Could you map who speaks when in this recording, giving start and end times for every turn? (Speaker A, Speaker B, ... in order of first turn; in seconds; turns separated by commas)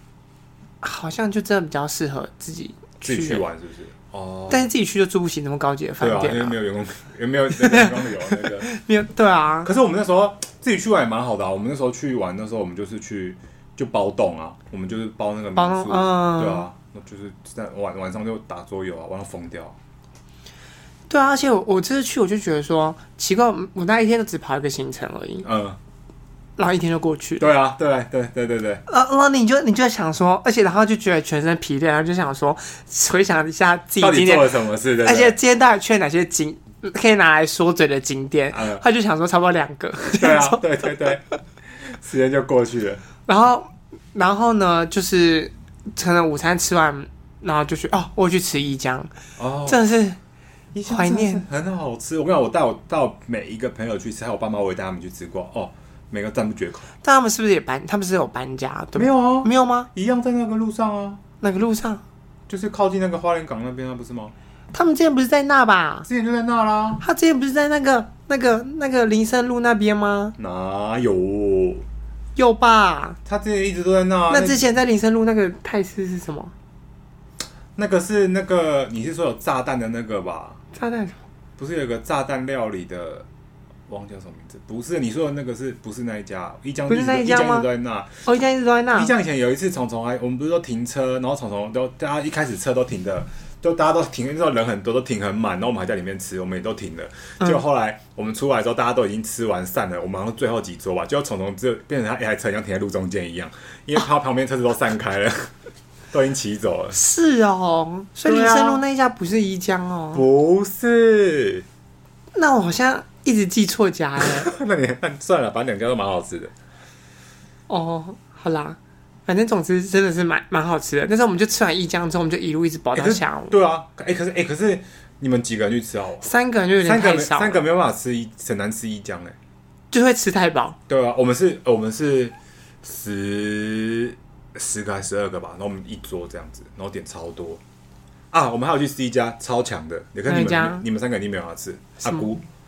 Speaker A: 0.8-3.4, Speaker B: 3.0-4.7, Speaker A: 4.5-6.6, Speaker B: 6.0-8.7, Speaker A: 7.5-9.7, Speaker B: 9.6-19.8, Speaker A: 15.6-16.7, Speaker A: 21.1-25.5, Speaker B: 25.4-25.8, Speaker A: 26.6-27.5, Speaker B: 27.4-28.8, Speaker A: 28.9-40.6, Speaker B: 34.0-35.4, Speaker B: 38.5-38.8, Speaker B: 40.1-41.2, Speaker B: 41.8-43.0, Speaker A: 43.3-49.1, Speaker B: 49.4-49.8, Speaker A: 49.6-50.2, Speaker B: 50.7-56.9, Speaker A: 50.9-51.4, Speaker A: 57.0-59.9, Speaker B: 58.9-61.2, Speaker A: 61.4-62.0, Speaker B: 62.5-64.3, Speaker A: 64.7-66.1, Speaker B: 66.1-67.0, Speaker A: 67.0-70.3, Speaker B: 70.4-71.8, Speaker A: 72.3-73.2, Speaker B: 73.2-74.6, Speaker A: 74.3-76.5, Speaker B: 77.8-80.6, Speaker A: 80.7-81.2, Speaker B: 81.6-83.2, Speaker B: 83.9-88.2, Speaker A: 86.9-87.7, Speaker A: 88.2-89.1, Speaker B: 88.9-105.5, Speaker B: 106.1-107.0, Speaker A: 106.9-110.2, Speaker B: 108.2-108.8, Speaker B: 110.1-111.6, Speaker A: 112.3-114.5, Speaker B: 114.2-116.5, Speaker A: 117.7-123.5, Speaker B: 122.9-126.3, Speaker A: 126.2-127.6, Speaker B: 126.8-129.3, Speaker A: 129.9-130.8, Speaker B: 130.9-137.6, Speaker B: 138.3-142.4, Speaker A: 140.3-140.8